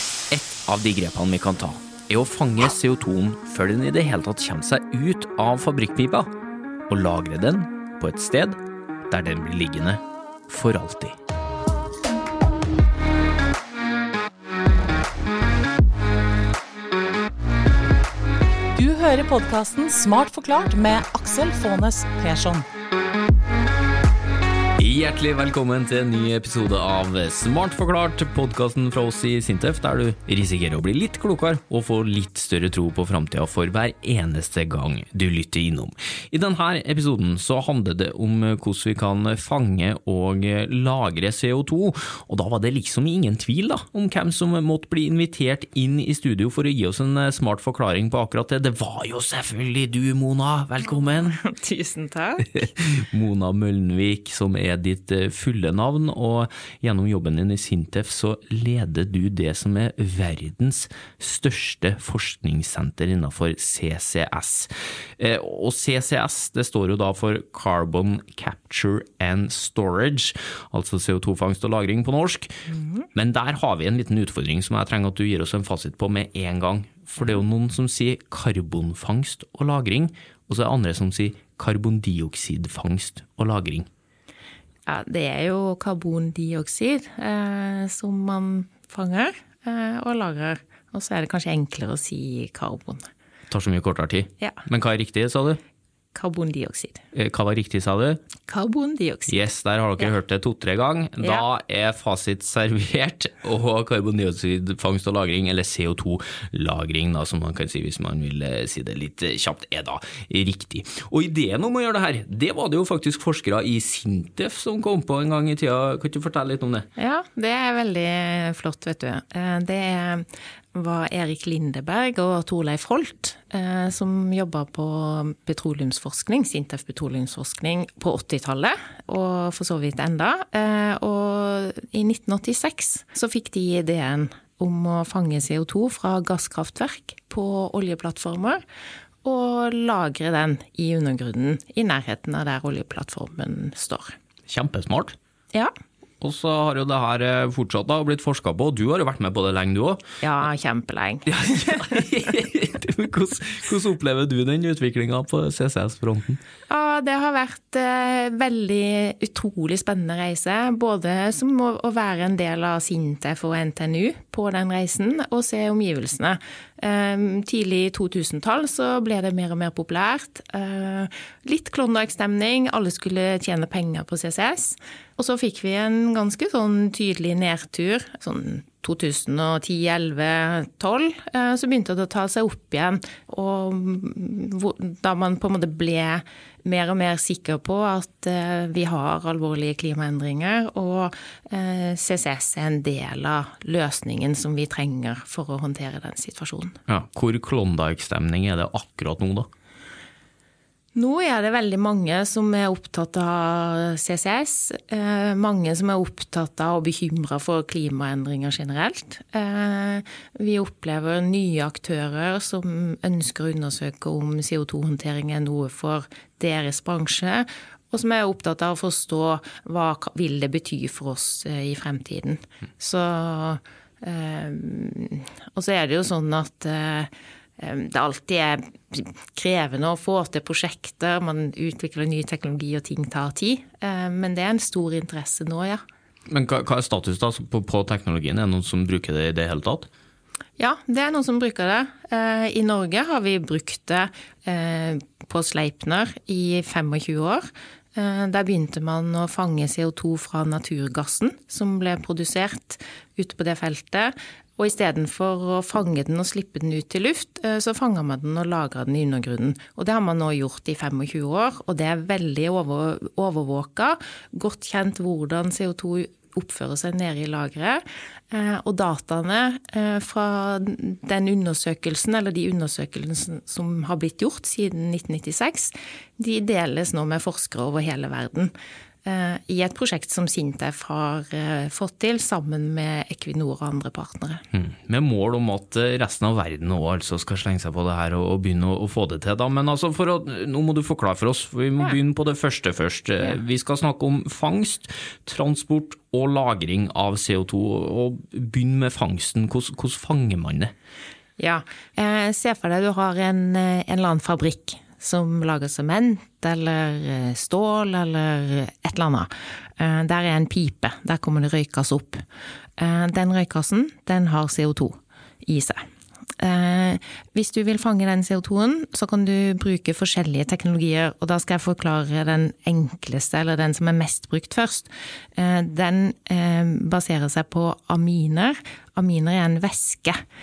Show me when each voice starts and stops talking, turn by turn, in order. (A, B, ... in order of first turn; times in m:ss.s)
0:00.3-0:06.3 A
0:06.9-0:11.2 A
0:18.7-0:22.6 B
0:24.8-0:51.4 A
0:51.3-0:52.5 C
0:52.5-1:12.6 A
1:13.1-1:23.9 A
1:24.9-1:33.1 C
1:33.5-1:35.6 A
1:36.1-1:37.0 C
1:37.1-1:38.2 A
1:38.5-1:39.4 C
1:39.3-1:56.9 A
1:57.0-2:18.6 C
2:19.2-2:24.2 C
2:24.5-2:25.2 A
2:26.2-2:30.0 A
2:30.2-2:32.0 C
2:31.2-2:36.4 A
2:36.7-3:16.8 C
3:16.9-3:19.5 A
3:20.9-3:55.8 C
3:56.3-3:59.9 A
4:00.6-4:38.5 C
4:39.0-4:44.4 C
4:44.5-5:00.7 A
5:01.4-5:12.2 C
5:12.8-5:15.8 C
5:16.4-5:30.2 C